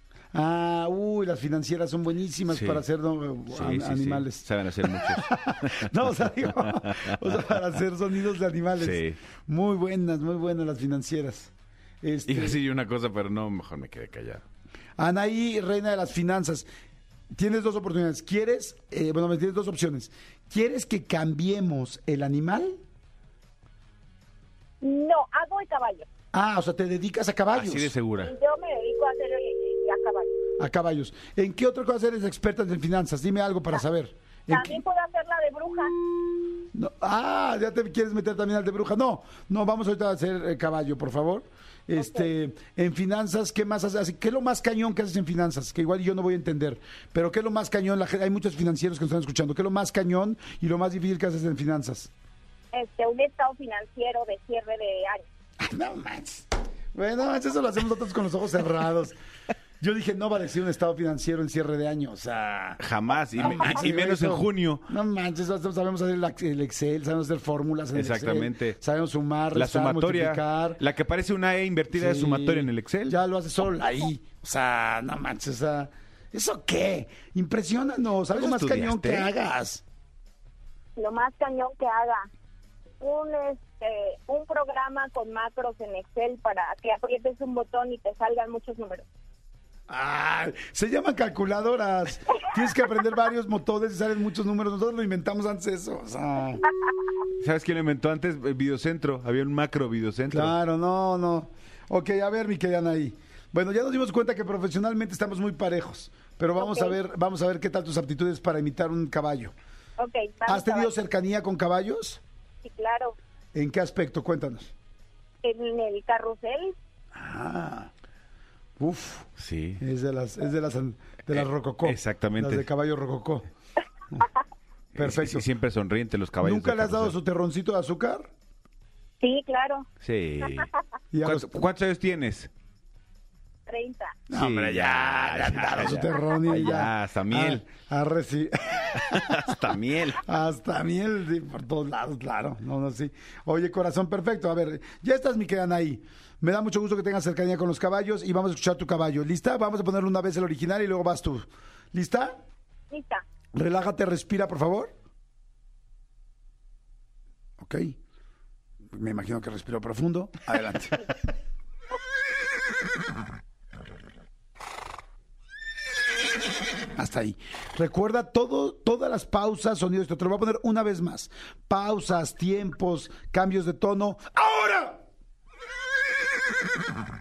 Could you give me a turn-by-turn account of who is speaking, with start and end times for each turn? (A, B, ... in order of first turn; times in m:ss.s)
0:00.3-0:11.5 A
0:02.5-0:02.8 B
0:03.5-0:07.6 B
0:08.8-0:09.2 B
0:12.0-0:12.6 A
0:12.3-0:14.4 B
0:15.0-0:16.7 A
0:17.3-0:22.8 A
0:24.8-0:26.1 C
0:26.3-0:27.9 A
0:27.5-0:28.3 B
0:28.2-0:30.3 C
0:30.6-0:34.8 A
0:34.5-0:35.9 C
0:36.7-0:52.1 A
0:42.0-0:42.2 C
0:52.7-0:55.2 C
0:55.6-0:59.2 A
0:59.8-1:02.8 A
1:02.8-1:04.9 B
1:03.4-1:10.8 A
1:07.9-1:08.8 B
1:09.5-1:13.2 B
1:11.9-1:19.8 A
1:18.3-1:19.3 B
1:21.0-1:22.3 C
1:23.0-1:29.0 C
1:29.9-1:36.7 A
1:37.4-1:40.6 B
1:40.3-1:49.5 A
1:46.6-1:47.0 C
1:50.0-1:50.9 C
1:50.5-1:52.2 A
1:52.6-1:53.2 C
1:53.6-1:54.7 A
1:55.4-1:56.8 C
1:57.2-1:57.9 A
1:58.8-2:03.5 A
1:59.4-1:59.8 B
2:01.3-2:02.7 B
2:05.0-2:05.5 A
2:05.0-2:07.1 B
2:06.4-2:08.3 A
2:09.2-2:09.9 C
2:10.0-2:10.7 B
2:11.1-2:11.6 A
2:11.2-2:12.5 B
2:13.7-2:14.2 C
2:14.3-2:19.5 A
2:14.3-2:17.6 B
2:19.0-2:20.2 B
2:20.2-2:32.4 A
2:32.9-2:33.2 C
2:33.6-2:34.9 A
2:37.6-2:38.0 A
2:38.9-2:41.1 A
2:47.0-2:55.0 A